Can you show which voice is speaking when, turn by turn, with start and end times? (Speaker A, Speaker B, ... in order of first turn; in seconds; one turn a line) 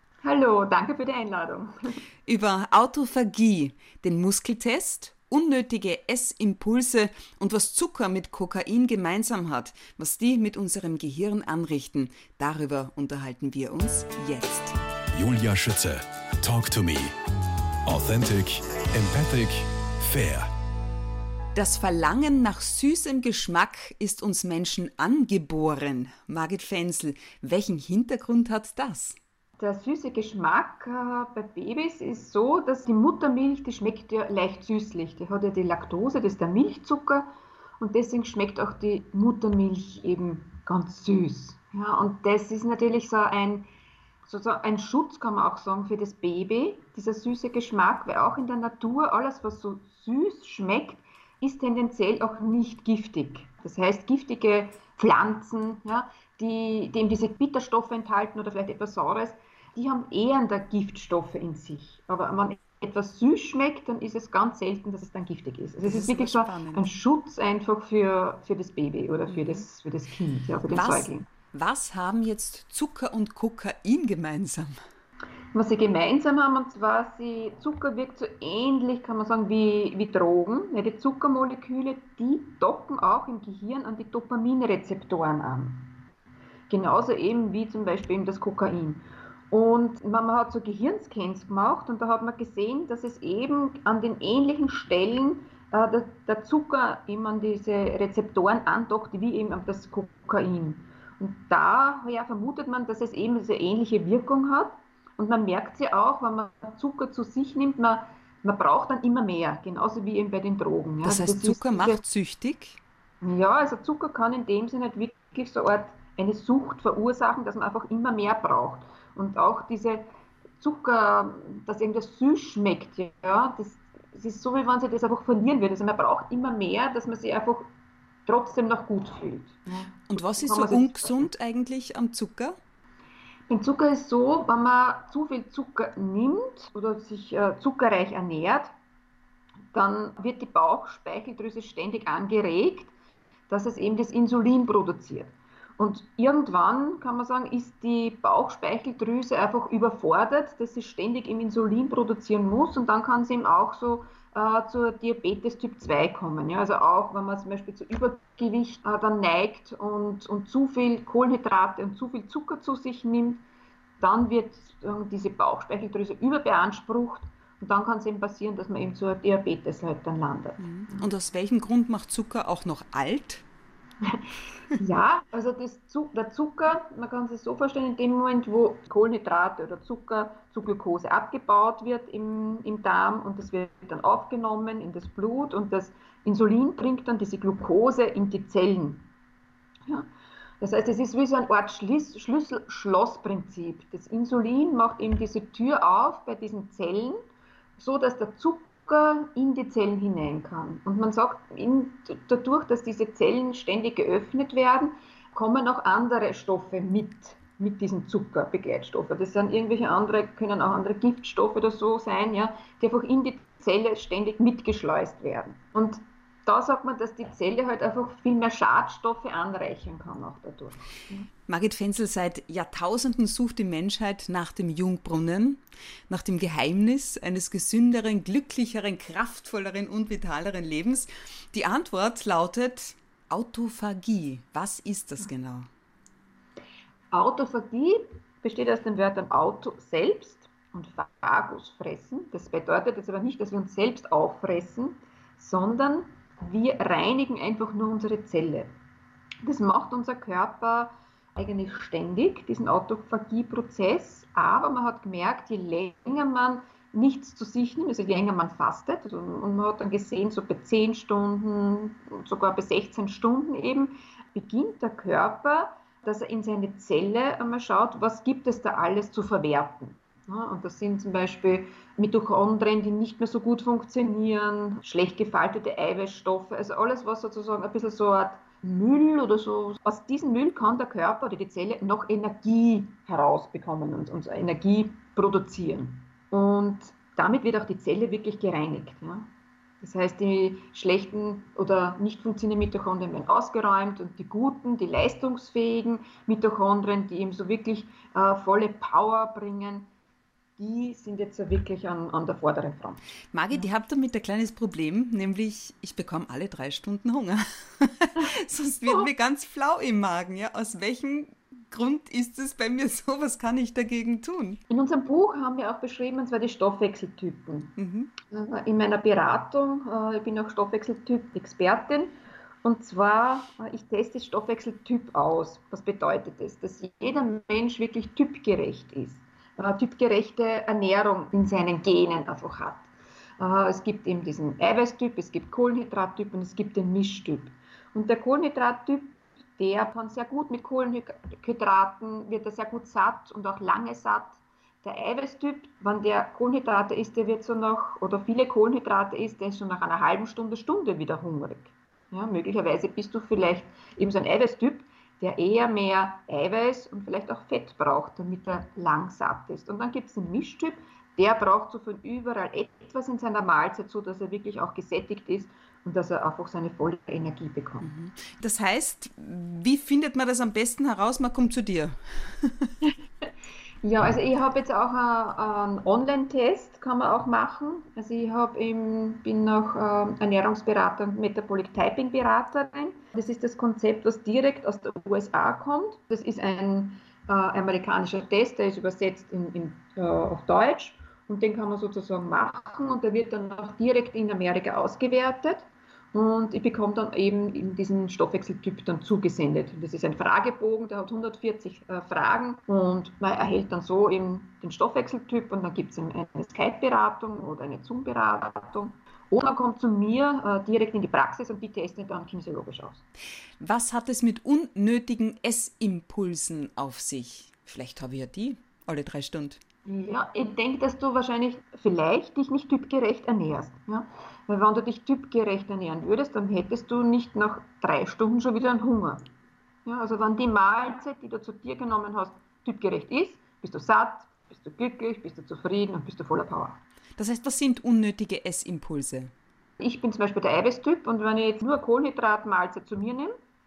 Speaker A: 0.2-1.9
Speaker B: 2.2-14.8
Speaker C: 15.1-17.1
Speaker C: 17.9-20.5
Speaker B: 21.5-29.2
Speaker A: 29.6-37.3
Speaker A: 37.8-43.7
Speaker A: 44.2-71.3
Speaker B: 65.8-66.9
Speaker B: 69.3-69.6
Speaker B: 70.7-74.8
Speaker A: 75.5-85.9
Speaker A: 86.7-112.0
Speaker B: 111.0-112.8
Speaker A: 113.2-120.0
Speaker A: 120.6-127.7
Speaker A: 128.3-131.3
Speaker B: 130.1-132.6
Speaker A: 133.5-138.7
Speaker A: 139.7-142.9
Speaker A: 143.5-163.4
Speaker A: 164.0-171.1
Speaker B: 170.6-173.4
Speaker A: 174.8-189.1
Speaker A: 190.6-197.2
Speaker A: 197.8-221.3
Speaker B: 221.5-235.7
Speaker A: 237.1-248.7
Speaker A: 249.4-289.3
Speaker A: 289.8-299.9
Speaker A: 300.6-303.0
Speaker B: 303.3-314.6
Speaker A: 314.7-332.9
Speaker B: 317.8-318.1
Speaker A: 333.4-367.9
Speaker B: 367.8-372.7
Speaker A: 373.8-413.0
Speaker B: 413.6-419.6
Speaker A: 419.9-429.3
Speaker A: 429.8-436.8
Speaker B: 437.2-439.3
Speaker A: 439.8-443.3